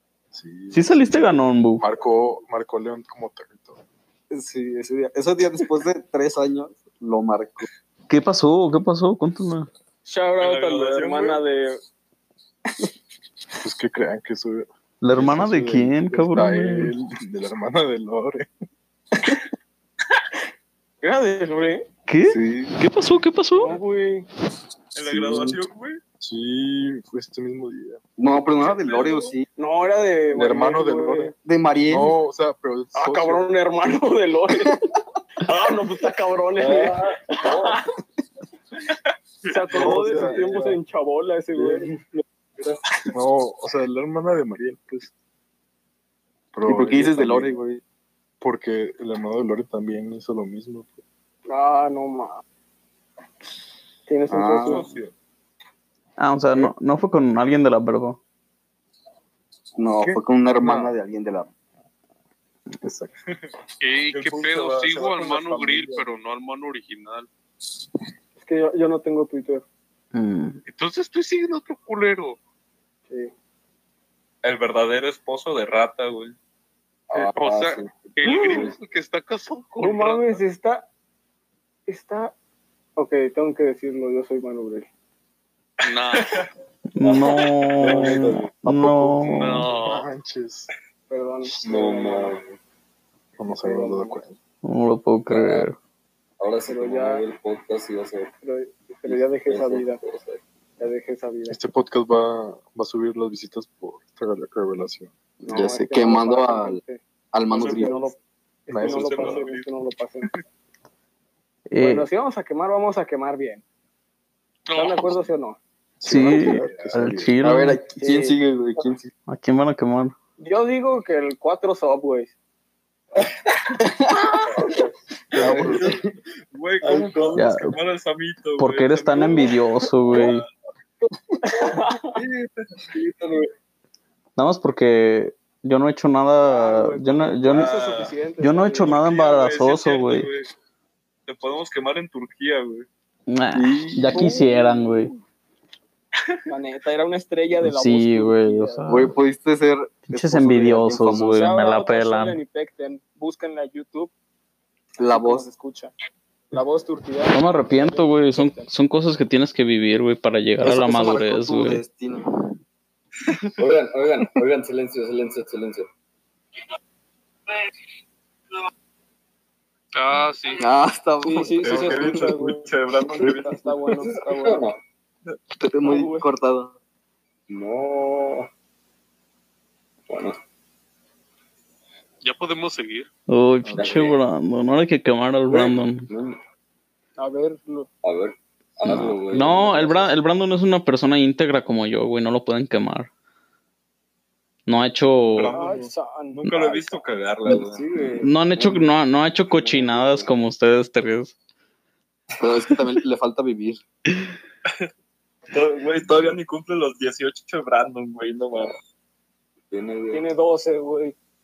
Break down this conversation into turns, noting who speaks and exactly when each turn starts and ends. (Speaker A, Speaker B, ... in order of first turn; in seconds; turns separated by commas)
Speaker A: 0.3-1.1, Speaker B: 0.7-1.8, Speaker A: 1.8-3.8, Speaker C: 4.3-7.7, Speaker B: 8.1-9.7, Speaker D: 10.0-11.8, Speaker E: 10.4-11.4, Speaker A: 13.6-18.5, Speaker B: 15.0-16.9, Speaker D: 21.0-21.9, Speaker B: 22.1-23.8, Speaker C: 22.3-22.6, Speaker D: 23.6-24.3, Speaker E: 24.9-26.0, Speaker A: 25.0-25.6, Speaker A: 26.2-28.0, Speaker C: 28.2-29.4, Speaker D: 29.6-31.3, Speaker A: 30.3-31.3, Speaker C: 31.4-32.1, Speaker A: 31.9-33.5, Speaker D: 32.9-34.8, Speaker D: 35.4-37.8, Speaker F: 36.7-37.8, Speaker D: 39.4-42.2, Speaker A: 39.7-40.8, Speaker E: 39.7-40.0, Speaker A: 43.1-45.1, Speaker A: 46.5-47.5, Speaker C: 46.6-47.8, Speaker A: 48.4-51.0, Speaker D: 51.5-52.4, Speaker D: 54.1-54.9, Speaker C: 54.3-54.9, Speaker E: 54.6-55.1, Speaker B: 56.2-58.2, Speaker C: 59.8-61.5, Speaker A: 60.0-60.9, Speaker A: 62.8-63.1, Speaker G: 63.8-67.3, Speaker E: 64.1-66.0, Speaker D: 68.4-69.6, Speaker B: 70.1-70.6, Speaker G: 70.7-72.4, Speaker E: 74.4-76.3, Speaker F: 77.1-78.7, Speaker G: 77.1-80.4, Speaker D: 79.8-80.8, Speaker D: 81.9-82.3, Speaker D: 83.0-84.9, Speaker G: 85.8-86.4, Speaker B: 86.9-89.7, Speaker F: 87.0-88.5, Speaker E: 87.8-88.2, Speaker A: 88.6-90.7, Speaker G: 89.2-90.1, Speaker D: 91.1-92.4, Speaker F: 91.6-92.6, Speaker A: 93.4-94.4, Speaker D: 93.5-94.2, Speaker B: 94.6-95.8, Speaker F: 95.3-95.7, Speaker F: 96.4-98.3, Speaker D: 96.7-97.2, Speaker D: 98.4-100.0, Speaker F: 98.9-100.4, Speaker D: 100.8-101.6, Speaker A: 101.5-105.1, Speaker C: 105.4-106.8, Speaker D: 105.5-107.0, Speaker C: 107.3-107.9, Speaker D: 107.5-110.3, Speaker E: 107.5-107.9, Speaker A: 108.7-109.4, Speaker E: 108.7-109.6, Speaker B: 111.7-112.1, Speaker D: 111.8-113.6, Speaker G: 114.7-115.2, Speaker D: 114.7-115.6, Speaker A: 116.0-117.3, Speaker B: 116.0-117.8, Speaker E: 116.2-117.0, Speaker C: 117.4-119.1, Speaker D: 118.0-118.4, Speaker B: 119.3-120.1, Speaker D: 120.4-122.3, Speaker C: 123.8-124.3, Speaker E: 125.3-126.0, Speaker C: 125.3-126.0, Speaker E: 126.5-129.6, Speaker B: 127.3-127.7, Speaker B: 128.6-130.4, Speaker E: 130.1-130.4, Speaker D: 131.4-132.2, Speaker E: 131.8-133.4, Speaker B: 134.4-137.7, Speaker D: 136.4-138.9, Speaker E: 137.5-138.1, Speaker B: 138.4-140.3, Speaker E: 138.8-140.5, Speaker E: 141.3-142.9, Speaker B: 143.3-145.1, Speaker C: 143.5-144.2, Speaker D: 144.1-145.2, Speaker D: 146.5-148.9, Speaker B: 147.6-149.1, Speaker C: 148.9-151.5, Speaker B: 150.1-152.4, Speaker D: 151.3-154.1, Speaker C: 155.0-155.5, Speaker D: 155.0-155.9, Speaker D: 156.5-158.7, Speaker B: 157.3-161.8, Speaker C: 160.6-162.3, Speaker F: 163.6-165.9, Speaker G: 169.9-170.6, Speaker C: 170.6-172.1, Speaker D: 171.2-172.6, Speaker E: 171.6-173.9, Speaker D: 173.2-174.7, Speaker F: 174.2-174.8, Speaker C: 175.6-176.7, Speaker D: 175.8-176.3, Speaker F: 177.5-178.5, Speaker F: 180.1-180.4, Speaker G: 182.2-183.1, Speaker B: 183.3-186.1, Speaker A: 183.6-184.0, Speaker F: 183.8-184.2, Speaker F: 185.5-186.4, Speaker D: 187.2-187.9, Speaker F: 188.0-190.1, Speaker B: 188.8-193.1, Speaker B: 194.7-195.5, Speaker E: 195.3-197.9, Speaker D: 195.5-197.0, Speaker F: 197.4-198.9, Speaker B: 198.2-201.3, Speaker F: 199.5-200.3, Speaker C: 202.4-203.8, Speaker E: 205.5-208.8, Speaker F: 209.7-210.2, Speaker D: 210.1-211.1